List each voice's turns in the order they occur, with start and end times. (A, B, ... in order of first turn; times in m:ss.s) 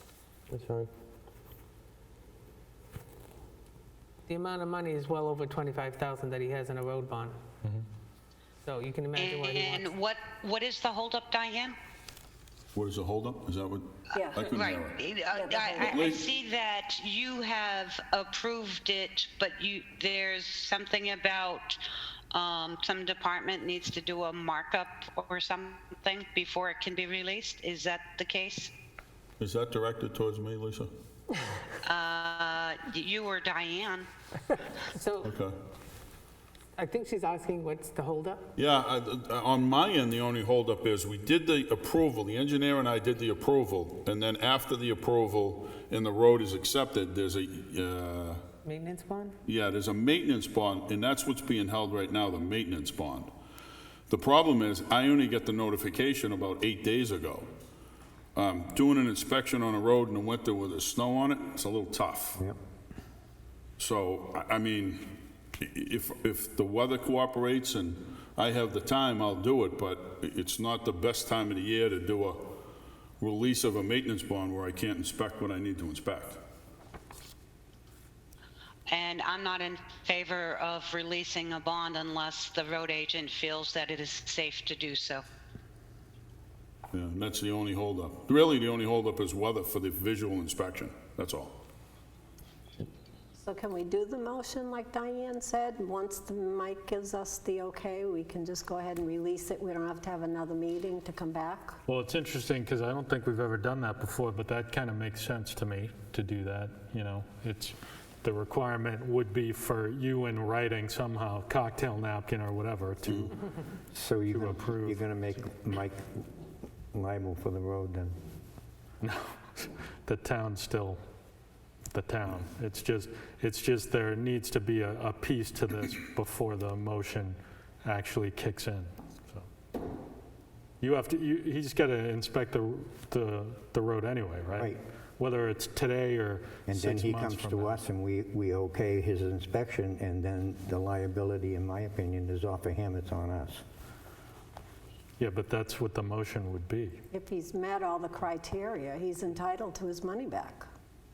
0:00.5-0:00.9 A
0:04.3-0:07.4 A
0:08.6-0:09.9 A
0:09.2-0:11.8 B
0:12.8-0:15.1 C
0:14.1-0:14.5 D
0:14.4-0:21.8 B
0:15.3-0:16.1 D
0:15.8-0:16.2 C
0:22.3-0:28.7 B
0:29.4-0:30.9 C
0:31.8-0:34.1 B
0:34.9-0:35.3 A
0:35.2-0:35.6 C
0:36.8-0:38.5 A
0:38.6-0:48.4 C
0:48.6-0:49.4 A
0:49.4-0:53.3 C
0:54.1-0:57.5 C
0:58.4-1:02.4 C
1:03.8-1:12.6 C
1:13.2-1:16.4 C
1:18.9-1:25.2 B
1:26.9-1:31.6 C
1:33.4-1:41.8 D
1:41.9-1:53.4 E
1:53.9-1:56.1 F
1:54.3-1:55.4 E
1:56.9-1:58.2 F
1:59.0-2:01.0 E
2:01.9-2:09.5 E
2:10.8-2:17.8 E
2:16.7-2:23.6 F
2:25.2-2:27.0 E
2:27.1-2:30.7 D